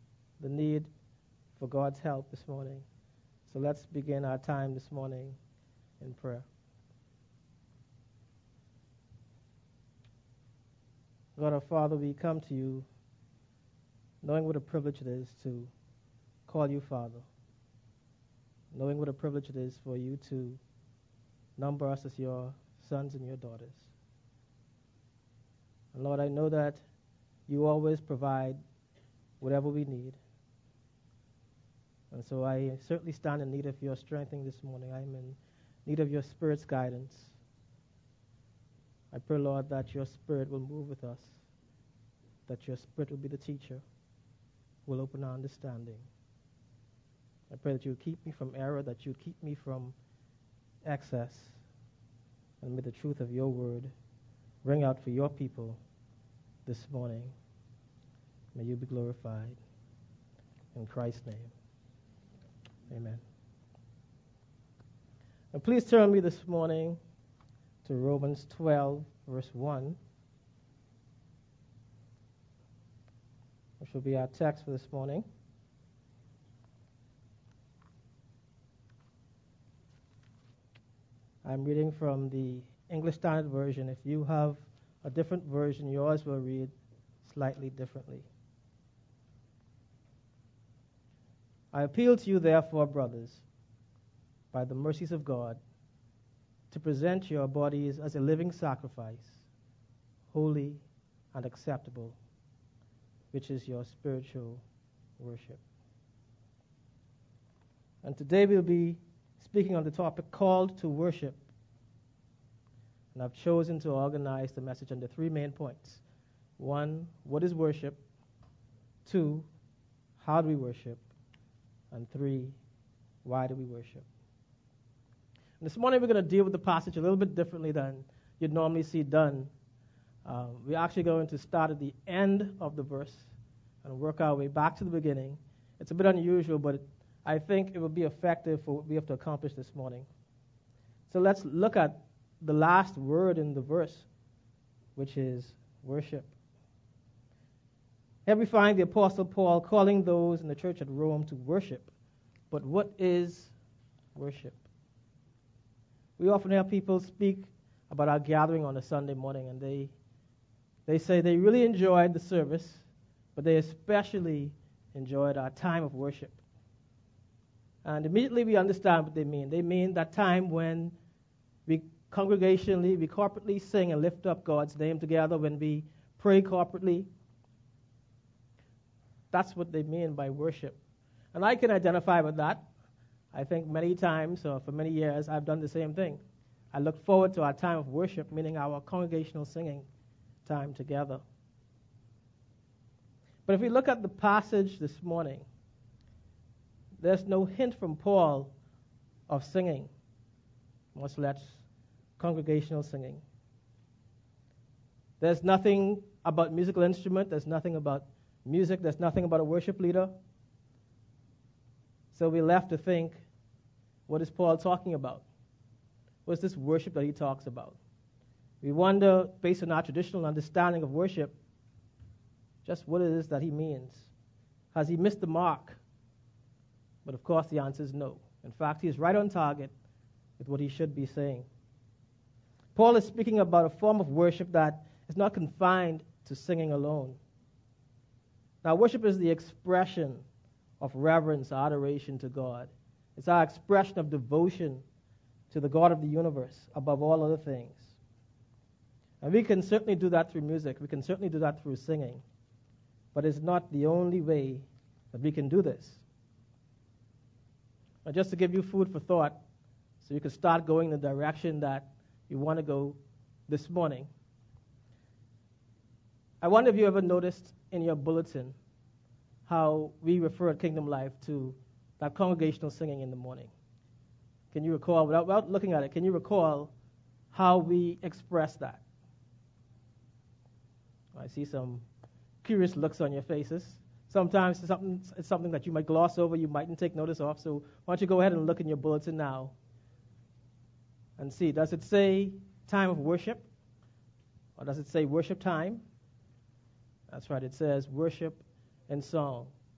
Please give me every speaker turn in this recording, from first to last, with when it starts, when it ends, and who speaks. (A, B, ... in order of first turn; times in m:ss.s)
0:00.4-0:00.9 A
0:01.6-0:02.8 A
0:03.5-0:05.4 A
0:06.0-0:06.5 A
0:11.4-0:12.8 A
0:14.2-0:15.7 A
0:16.4-0:17.3 A
0:18.7-0:20.6 A
0:21.6-0:23.9 A
0:25.9-0:26.8 A
0:27.5-0:28.6 A
0:29.4-0:30.2 A
0:32.1-0:37.4 A
0:39.1-0:41.4 A
0:42.4-0:43.8 A
0:44.8-0:46.1 A
0:47.5-0:50.0 A
0:50.8-0:51.6 A
0:52.6-0:53.9 A
0:54.6-0:55.8 A
0:56.6-0:57.3 A
0:58.5-0:59.6 A
1:00.7-1:01.5 A
1:02.9-1:03.2 A
1:05.5-1:07.0 A
1:07.8-1:10.0 A
1:13.8-1:15.2 A
1:21.4-1:26.7 A
1:27.2-1:28.3 A
1:31.7-1:33.4 A
1:34.5-1:35.6 A
1:36.7-1:39.4 A
1:40.3-1:40.8 A
1:41.3-1:42.2 A
1:43.3-1:44.6 A
1:45.2-1:45.6 A
1:48.0-1:51.4 A
1:53.1-1:56.0 A
1:56.6-1:58.0 A
1:59.0-1:59.5 A
2:00.2-2:01.0 A
2:01.9-2:02.6 A
2:03.2-2:04.0 A
2:05.6-2:09.5 A
2:10.2-2:13.3 A
2:13.8-2:20.1 A
2:21.1-2:24.1 A
2:25.0-2:26.3 A
2:28.2-2:31.9 A
2:32.5-2:33.5 A
2:34.1-2:34.6 A
2:36.2-2:39.9 A
2:40.9-2:46.4 A
2:47.8-2:50.9 A
2:51.7-2:57.1 A
2:59.3-3:00.8 A
3:01.3-3:02.6 A
3:03.3-3:09.8 A
3:10.4-3:11.2 A
3:13.4-3:15.4 A
3:17.0-3:18.5 A
3:19.3-3:19.9 A
3:20.9-3:21.6 A
3:22.2-3:23.2 A
3:25.2-3:30.1 A
3:32.1-3:33.2 A
3:34.1-3:35.2 A
3:36.2-3:37.8 A
3:38.6-3:41.3 A
3:42.6-3:44.1 A
3:44.7-3:45.8 A
3:47.0-3:49.7 A
3:50.4-3:51.5 A
3:52.7-3:57.2 A
3:58.6-4:00.2 A
4:00.8-4:04.8 A
4:05.5-4:08.0 A
4:09.2-4:12.2 A
4:13.1-4:16.0 A
4:18.0-4:19.4 A
4:20.0-4:24.1 A
4:26.4-4:28.6 A
4:29.4-4:33.5 A
4:34.5-4:36.7 A
4:37.3-4:38.8 A
4:41.1-4:41.8 A
4:42.4-4:49.5 A
4:51.2-4:53.4 A
4:54.6-4:55.8 A
4:57.1-4:59.5 A